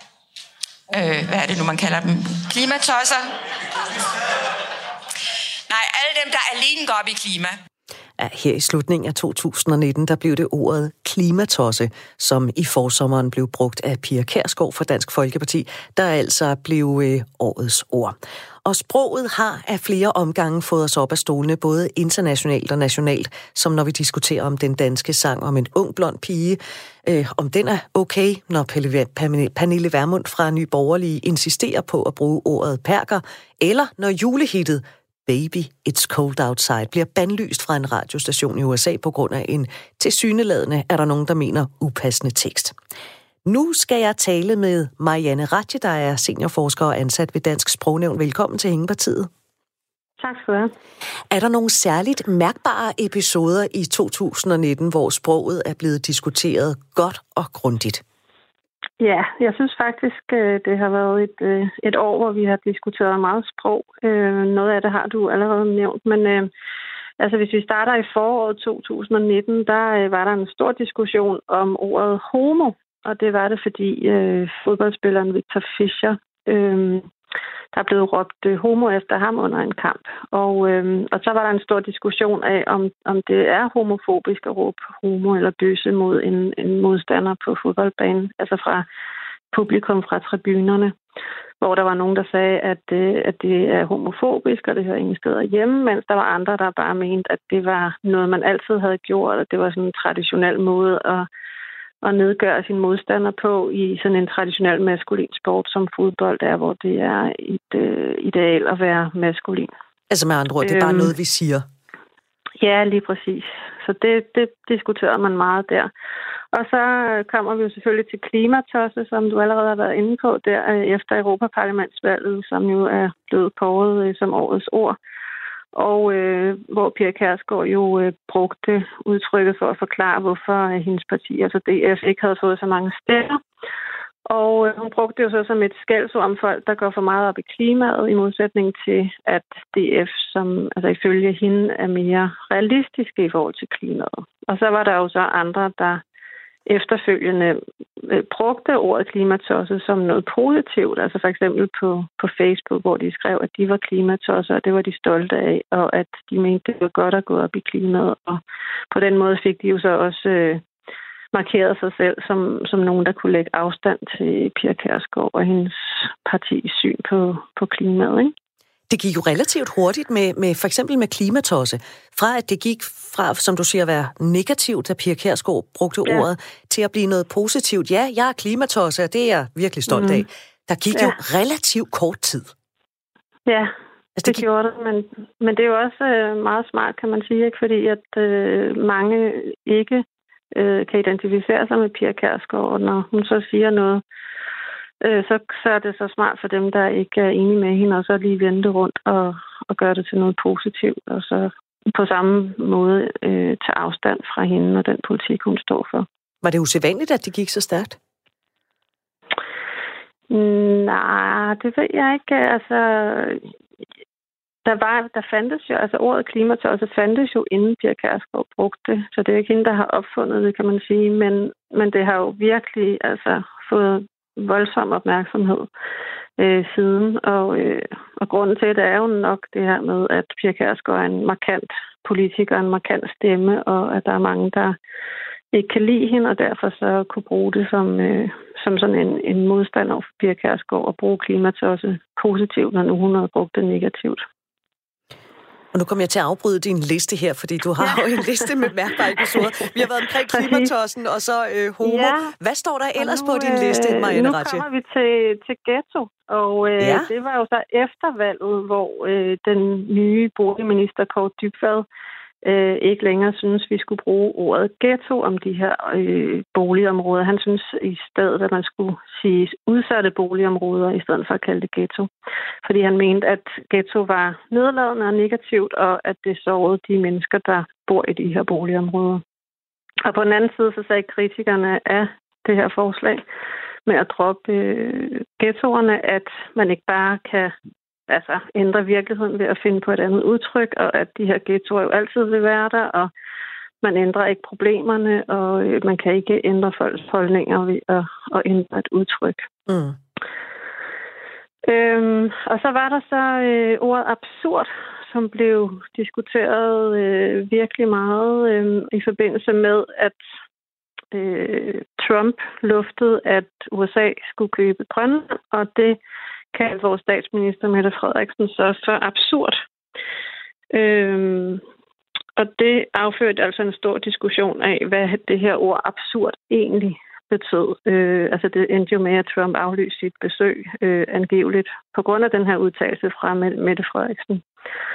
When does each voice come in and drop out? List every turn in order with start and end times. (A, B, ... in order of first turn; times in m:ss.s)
0:00.9-0:03.3 A
0:05.7-0:07.6 A
0:08.2-0:42.8 B
0:43.4-0:49.3 B
0:50.2-0:50.7 C
0:51.3-0:58.0 B
0:59.0-1:06.5 C
1:07.2-1:17.1 C
1:17.7-1:28.8 C
1:29.5-1:31.0 C
1:31.6-1:41.3 C
1:42.0-1:49.7 C
1:50.1-1:51.6 B
1:50.6-1:51.1 C
1:52.6-1:55.9 C
1:56.5-2:05.0 C
2:05.7-2:13.4 C
2:14.3-2:26.0 C
2:26.7-2:40.6 C
2:41.3-2:48.3 C
2:48.9-3:02.5 B
2:59.9-3:00.2 C
3:03.5-3:03.7 C
3:04.2-3:04.5 B
3:04.2-3:14.0 C
3:15.0-3:26.1 C
3:26.4-3:28.0 B
3:30.3-3:33.5 C
3:34.6-3:45.7 C
3:46.4-3:54.8 C
3:55.5-4:04.2 C
4:05.7-4:14.6 B
4:10.3-4:10.7 C
4:11.8-4:12.3 C
4:13.0-4:21.9 C
4:16.8-4:17.1 B
4:22.4-4:32.1 C
4:32.6-4:39.2 C
4:40.0-4:43.2 C
4:43.9-4:47.5 C
4:48.1-4:53.1 C
4:53.8-4:59.5 C
4:59.7-5:00.0 B
5:01.7-5:10.2 C
5:11.1-5:16.0 C
5:16.5-5:19.6 C
5:20.7-5:21.6 C
5:22.4-5:34.4 C